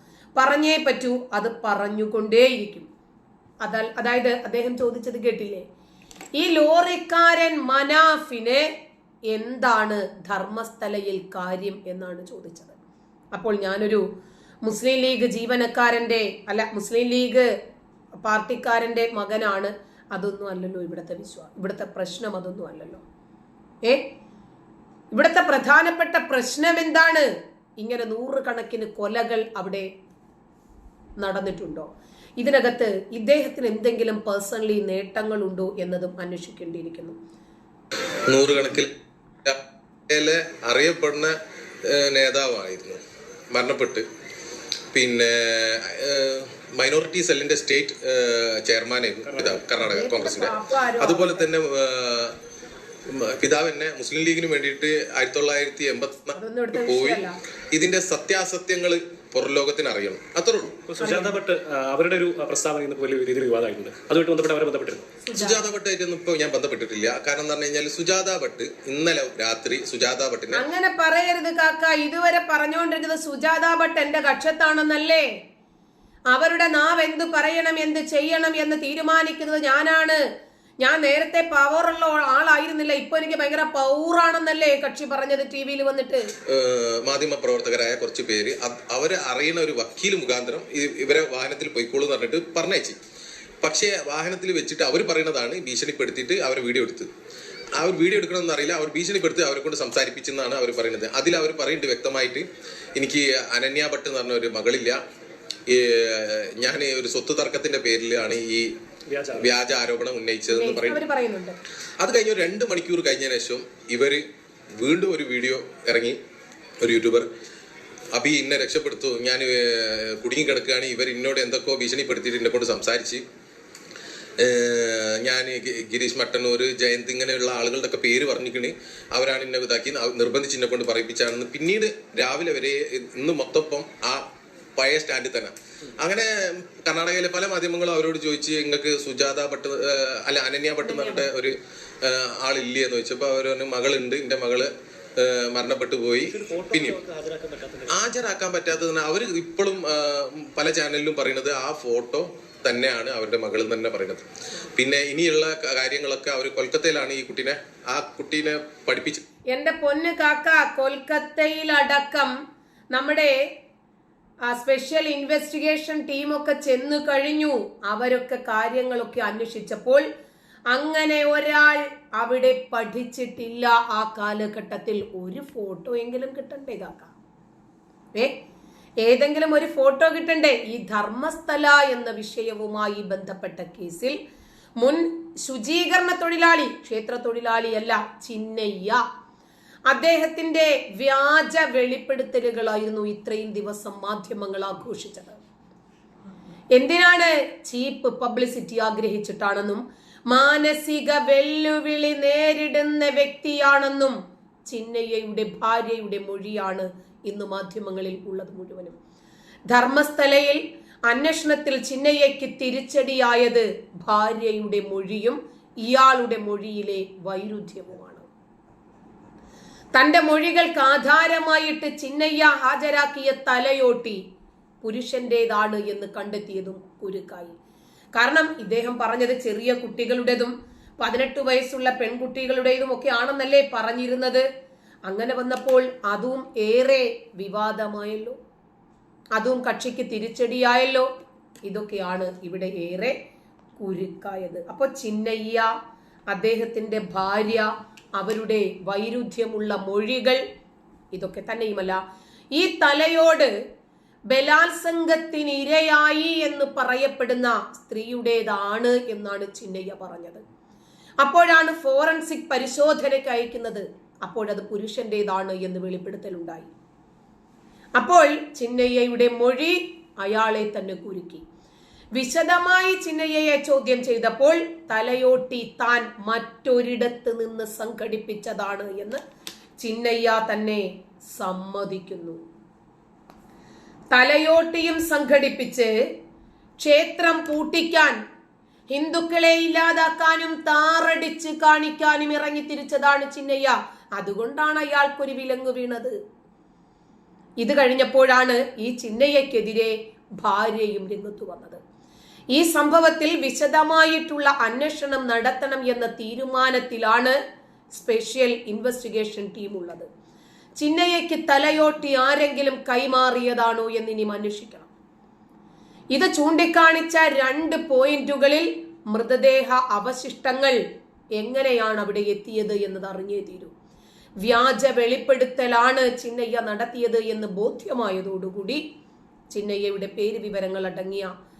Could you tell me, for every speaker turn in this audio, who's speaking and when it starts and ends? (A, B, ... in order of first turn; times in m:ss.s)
0:00.4-0:02.9 A
0:03.6-0:05.6 A
0:06.4-0:08.6 A
0:09.3-0:12.8 A
0:13.3-0:14.0 A
0:14.6-0:17.5 A
0:18.2-0:23.0 A
0:25.1-0:27.3 A
0:27.8-0:29.9 A
0:31.2-0:31.9 A
0:32.4-0:37.2 A
0:38.3-0:38.9 B
0:39.4-0:41.4 B
0:41.9-0:43.0 B
0:43.5-0:44.0 B
0:44.9-0:52.3 B
0:49.2-0:49.7 C
0:49.9-0:51.5 A
0:53.1-0:57.2 B
0:56.3-0:57.4 A
0:57.7-1:00.8 B
1:00.9-1:05.1 C
1:01.0-1:01.4 A
1:05.2-1:05.6 A
1:05.3-1:10.6 B
1:10.5-1:15.3 A
1:16.3-1:20.2 A
1:20.8-1:26.3 A
1:26.5-1:33.0 B
1:33.6-1:37.1 B
1:37.8-1:42.4 B
1:43.0-1:45.0 B
1:45.7-1:48.7 B
1:49.1-1:49.5 C
1:49.3-1:51.0 B
1:50.5-1:51.6 A
1:52.0-1:54.2 B
1:54.8-1:56.2 B
1:56.8-1:57.3 B
1:58.1-2:03.2 B
2:04.4-2:14.2 B
2:14.8-2:27.0 B
2:20.8-2:21.2 A
2:26.3-2:28.0 C
2:27.9-2:39.2 B
2:39.5-2:42.3 A
2:42.9-2:43.4 A
2:44.5-2:50.0 A
2:50.7-2:57.1 A
2:59.0-3:04.2 A
3:04.8-3:09.0 A
3:09.9-3:15.4 A
3:16.7-3:24.2 A
3:24.7-3:29.0 A
3:29.7-3:38.3 A
3:39.9-3:44.2 A
3:44.8-3:47.6 A
3:48.1-3:54.4 A
3:55.1-3:58.4 A
3:59.3-4:01.1 A
4:01.6-4:03.1 A
4:03.8-4:05.7 A
4:06.3-4:10.4 A
4:11.1-4:12.0 A
4:12.5-4:13.5 A
4:14.3-4:20.4 A
4:21.2-4:26.7 A
4:28.0-4:31.4 A
4:32.1-4:39.2 A
4:39.8-4:40.8 A
4:41.3-4:42.4 A
4:44.1-4:45.9 A
4:46.8-4:48.2 A
4:48.9-4:56.1 A
4:57.6-5:01.8 A
5:02.5-5:07.4 A
5:07.9-5:10.1 A
5:10.8-5:14.9 A
5:16.1-5:20.8 A
5:21.4-5:23.7 A
5:24.4-5:28.8 A
5:29.5-5:31.3 A